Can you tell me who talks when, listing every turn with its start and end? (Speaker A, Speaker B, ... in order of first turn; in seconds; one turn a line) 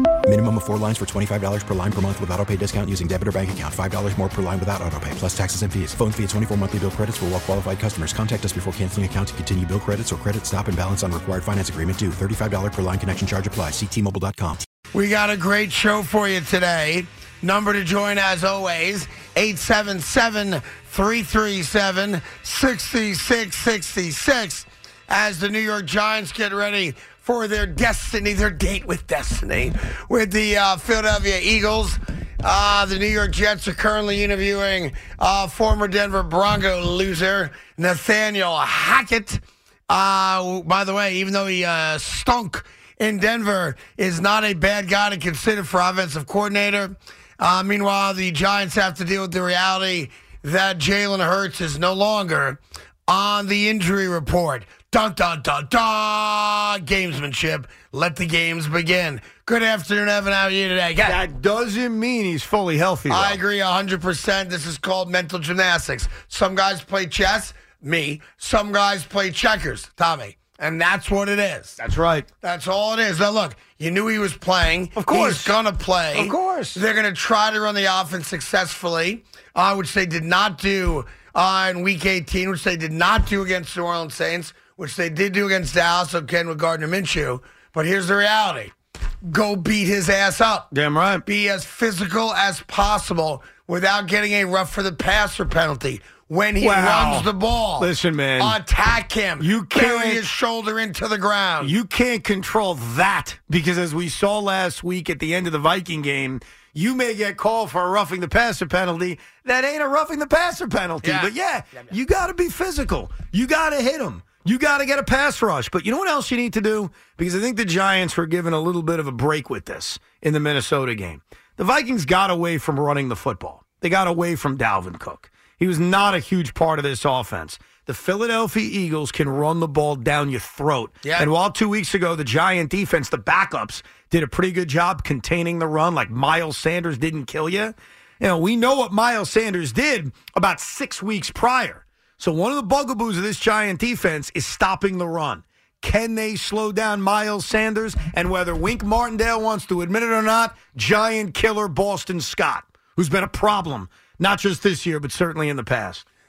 Speaker A: 0.2-14.6
Speaker B: 14.9-61.2
Speaker C: 61.0-63.4
Speaker B: 63.1-71.8
Speaker C: 71.8-72.3
Speaker B: 72.4-88.7
Speaker C: 75.0-75.5
Speaker C: 76.1-76.8
Speaker B: 89.2-90.7
Speaker C: 90.7-91.2
Speaker B: 91.2-101.7
Speaker C: 96.6-98.6
Speaker C: 99.4-100.2
Speaker C: 101.6-156.0
Speaker B: 111.0-111.3
Speaker B: 131.0-131.3